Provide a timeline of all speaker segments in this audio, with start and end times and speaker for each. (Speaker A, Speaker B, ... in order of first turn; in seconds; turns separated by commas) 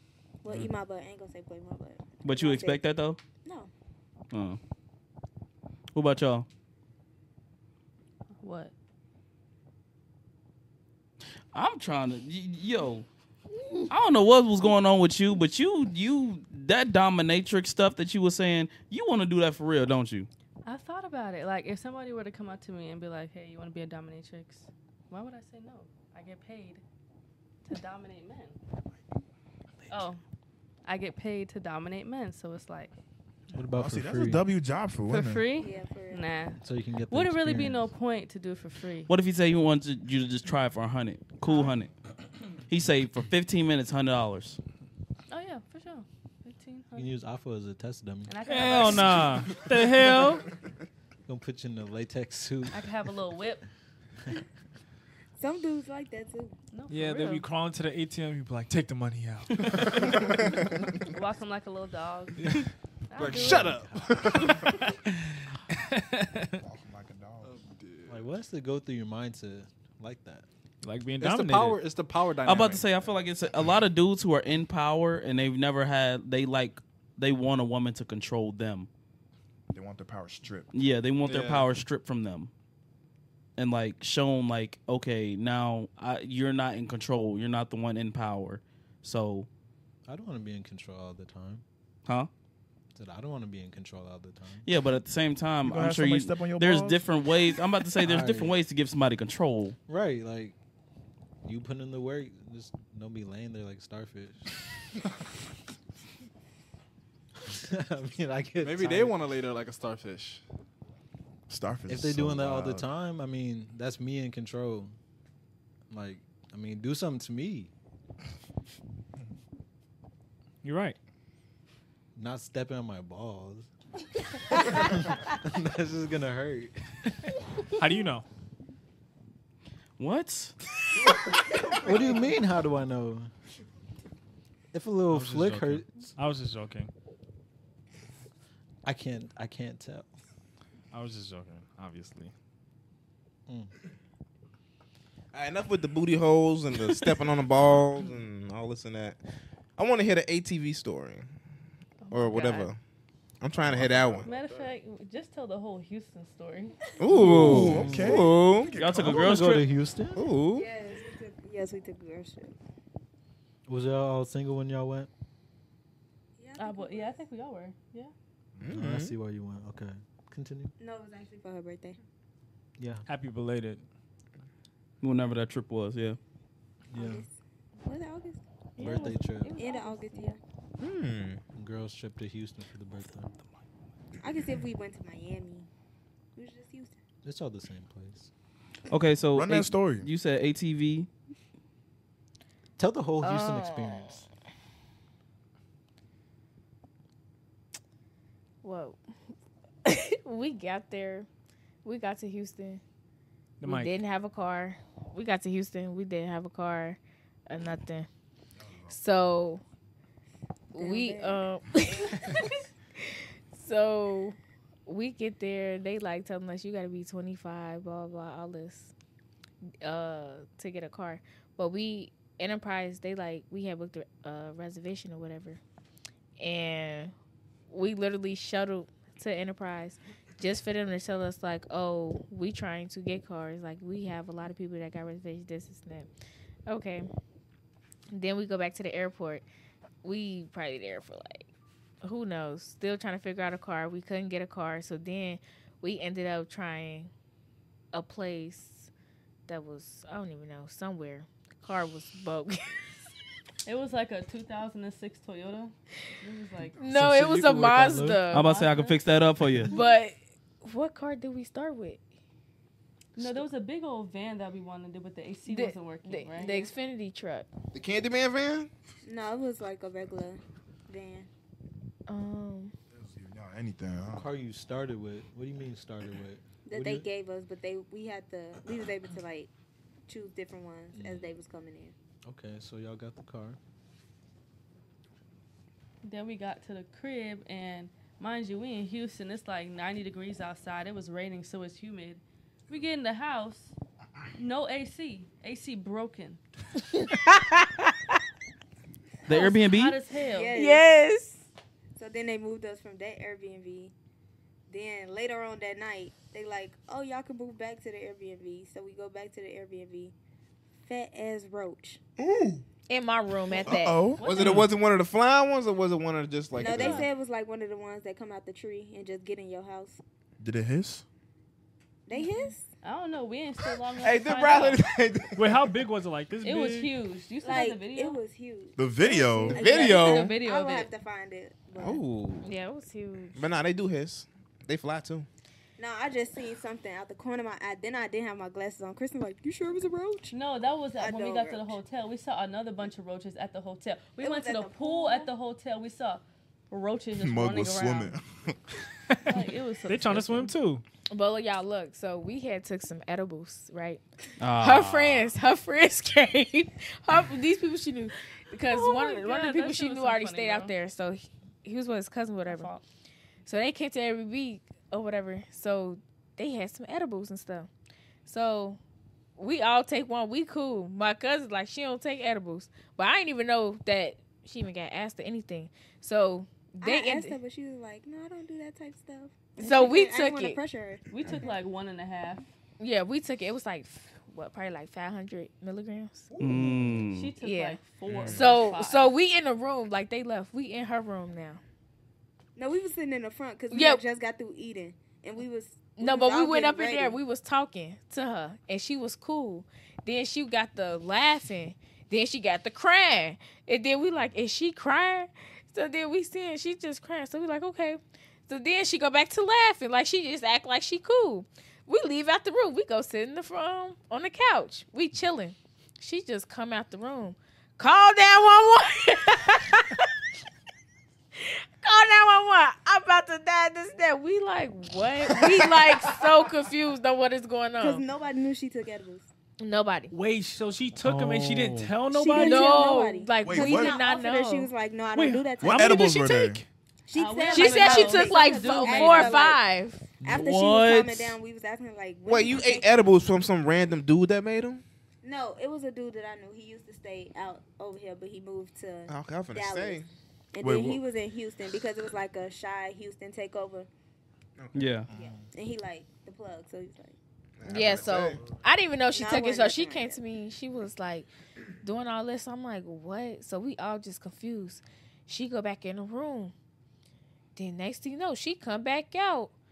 Speaker A: 0.4-2.8, Speaker B: 2.2-3.2, Speaker A: 3.4-3.7, Speaker B: 4.3-4.6, Speaker B: 5.9-6.5, Speaker C: 8.3-8.7, Speaker B: 11.5-13.1, Speaker B: 13.9-20.3, Speaker C: 20.6-26.8, Speaker C: 27.6-28.6, Speaker C: 29.9-30.2, Speaker C: 30.9-32.9, Speaker D: 33.5-34.5, Speaker E: 33.7-35.5, Speaker C: 35.1-39.1, Speaker A: 35.5-36.3, Speaker D: 36.6-37.9, Speaker B: 39.1-41.9, Speaker C: 41.4-41.8, Speaker B: 42.7-44.6, Speaker C: 45.3-47.1, Speaker D: 46.9-49.2, Speaker C: 48.3-49.6, Speaker F: 48.4-50.4, Speaker D: 51.3-52.8, Speaker C: 52.7-53.6, Speaker A: 55.4-56.5, Speaker C: 56.7-57.4, Speaker F: 56.9-60.2, Speaker C: 61.1-62.6, Speaker C: 63.1-63.8, Speaker G: 63.1-64.7, Speaker D: 63.2-64.4, Speaker F: 65.9-66.6, Speaker E: 66.6-67.5, Speaker G: 67.4-68.2, Speaker D: 68.1-70.4, Speaker F: 70.8-71.8, Speaker G: 71.2-73.0, Speaker B: 72.4-78.9, Speaker E: 79.7-80.7, Speaker B: 80.7-82.5, Speaker G: 81.2-81.7, Speaker B: 83.6-89.5, Speaker D: 90.0-91.6, Speaker B: 92.0-92.3, Speaker D: 92.9-94.6, Speaker B: 94.6-99.8, Speaker E: 95.6-97.0, Speaker D: 98.0-98.6, Speaker D: 99.9-100.5, Speaker D: 101.4-104.5, Speaker D: 107.5-109.2, Speaker G: 108.6-110.4, Speaker E: 111.5-112.9, Speaker D: 111.9-115.0, Speaker D: 115.9-117.7, Speaker F: 120.6-121.0, Speaker D: 122.1-123.7, Speaker D: 124.7-127.3, Speaker F: 127.8-128.2, Speaker B: 130.0-130.5, Speaker D: 131.7-133.3, Speaker D: 134.7-136.1, Speaker F: 135.1-136.9, Speaker D: 138.8-140.1, Speaker F: 140.9-142.3, Speaker D: 143.5-143.7, Speaker H: 145.3-149.2, Speaker H: 149.8-151.3, Speaker C: 152.0-152.7, Speaker H: 152.1-152.8, Speaker H: 153.4-154.3, Speaker E: 153.6-154.4, Speaker C: 154.2-156.7, Speaker G: 154.3-154.6, Speaker H: 157.0-158.7, Speaker E: 157.1-159.5, Speaker D: 157.1-158.3, Speaker B: 158.8-159.7, Speaker D: 158.9-160.2, Speaker H: 160.1-160.7, Speaker A: 160.5-162.5, Speaker D: 163.7-165.1, Speaker A: 166.4-167.2, Speaker C: 166.6-168.1, Speaker H: 168.6-169.1, Speaker D: 168.7-170.7, Speaker A: 170.8-172.0, Speaker D: 172.8-173.1, Speaker F: 173.1-173.8, Speaker B: 175.0-176.2, Speaker D: 176.9-177.2, Speaker A: 176.9-178.4, Speaker D: 178.8-179.6, Speaker C: 178.8-180.3, Speaker A: 179.5-180.4, Speaker H: 180.8-181.4, Speaker D: 181.6-183.3, Speaker A: 184.2-185.7, Speaker A: 186.3-187.0, Speaker D: 187.2-188.3, Speaker B: 188.9-191.1, Speaker E: 189.3-190.1, Speaker D: 192.8-194.3, Speaker I: 193.2-194.2, Speaker I: 198.6-199.0, Speaker I: 199.8-201.3, Speaker I: 201.8-202.8, Speaker F: 203.6-203.9, Speaker I: 203.6-208.1, Speaker E: 208.6-208.9, Speaker I: 208.9-209.6, Speaker I: 210.7-212.6, Speaker A: 210.8-211.4, Speaker I: 213.5-214.3, Speaker I: 214.9-218.9, Speaker I: 219.8-225.6, Speaker I: 226.4-227.1, Speaker I: 227.7-236.1, Speaker I: 236.7-237.1, Speaker I: 238.1-239.4, Speaker I: 240.0-241.5, Speaker I: 242.0-247.1, Speaker I: 247.9-248.9, Speaker I: 249.5-252.9, Speaker C: 253.6-256.8, Speaker I: 256.8-258.5, Speaker D: 256.8-258.3, Speaker B: 258.3-259.7, Speaker C: 258.4-259.0, Speaker I: 259.7-262.0, Speaker C: 263.1-266.7, Speaker I: 265.4-267.5, Speaker H: 267.7-268.7, Speaker A: 269.0-271.3, Speaker I: 272.1-272.7, Speaker E: 272.9-274.3, Speaker D: 274.1-277.1, Speaker A: 276.6-279.5, Speaker A: 280.1-281.9, Speaker D: 280.9-281.3, Speaker D: 282.2-283.6, Speaker C: 286.0-293.7, Speaker C: 294.4-296.4, Speaker I: 296.9-297.8, Speaker B: 299.2-300.0, Speaker C: 299.3-300.5, Speaker A: 300.3-300.8, Speaker I: 300.5-301.4, Speaker A: 301.9-303.9, Speaker A: 304.7-310.1, Speaker A: 310.8-312.0, Speaker E: 312.2-312.6, Speaker I: 312.9-314.1, Speaker E: 313.6-314.7, Speaker C: 314.2-314.7, Speaker H: 314.2-317.0, Speaker A: 316.6-320.0, Speaker C: 316.6-317.1, Speaker E: 320.4-321.0, Speaker A: 322.1-322.7, Speaker C: 322.1-324.8, Speaker H: 324.0-325.7, Speaker F: 325.3-326.9, Speaker C: 326.4-328.2, Speaker A: 327.4-332.0, Speaker E: 328.8-329.6, Speaker C: 329.5-330.9, Speaker H: 329.5-330.4, Speaker H: 331.8-332.5, Speaker I: 332.4-333.4, Speaker H: 333.3-335.3, Speaker A: 335.8-340.3, Speaker C: 340.3-348.1, Speaker A: 341.0-341.8, Speaker A: 344.2-345.3, Speaker E: 347.2-348.6, Speaker F: 349.1-350.8, Speaker C: 349.2-350.5, Speaker I: 351.1-354.0, Speaker B: 354.4-355.3, Speaker I: 354.5-362.7, Speaker C: 358.6-360.8, Speaker C: 362.4-362.8, Speaker I: 363.4-367.7, Speaker I: 368.2-368.8, Speaker I: 369.4-377.4, Speaker A: 376.8-381.5, Speaker I: 379.6-380.6, Speaker C: 381.1-382.4, Speaker I: 382.8-386.3, Speaker E: 386.3-387.0, Speaker B: 386.4-387.3, Speaker C: 387.1-389.1, Speaker I: 387.4-391.6, Speaker A: 392.6-397.2, Speaker I: 393.7-394.0, Speaker I: 395.9-420.1, Speaker I: 421.4-428.0, Speaker A: 427.8-429.3, Speaker I: 429.6-430.1, Speaker F: 430.1-432.7, Speaker B: 431.1-431.9, Speaker A: 432.1-436.1, Speaker I: 432.3-434.7, Speaker E: 433.4-434.0, Speaker F: 435.1-436.6, Speaker E: 435.6-436.6, Speaker A: 437.1-439.6, Speaker C: 437.1-439.4, Speaker I: 437.5-440.1, Speaker A: 440.2-442.9, Speaker B: 440.3-441.4, Speaker H: 442.2-444.8, Speaker A: 445.2-453.9, Speaker H: 449.1-450.1, Speaker E: 450.6-451.0, Speaker H: 454.6-454.9, Speaker B: 454.7-455.1, Speaker E: 455.1-455.5, Speaker A: 455.1-457.1, Speaker H: 457.6-458.4, Speaker I: 457.6-461.3, Speaker A: 459.1-460.2, Speaker I: 461.8-466.5, Speaker I: 467.6-469.5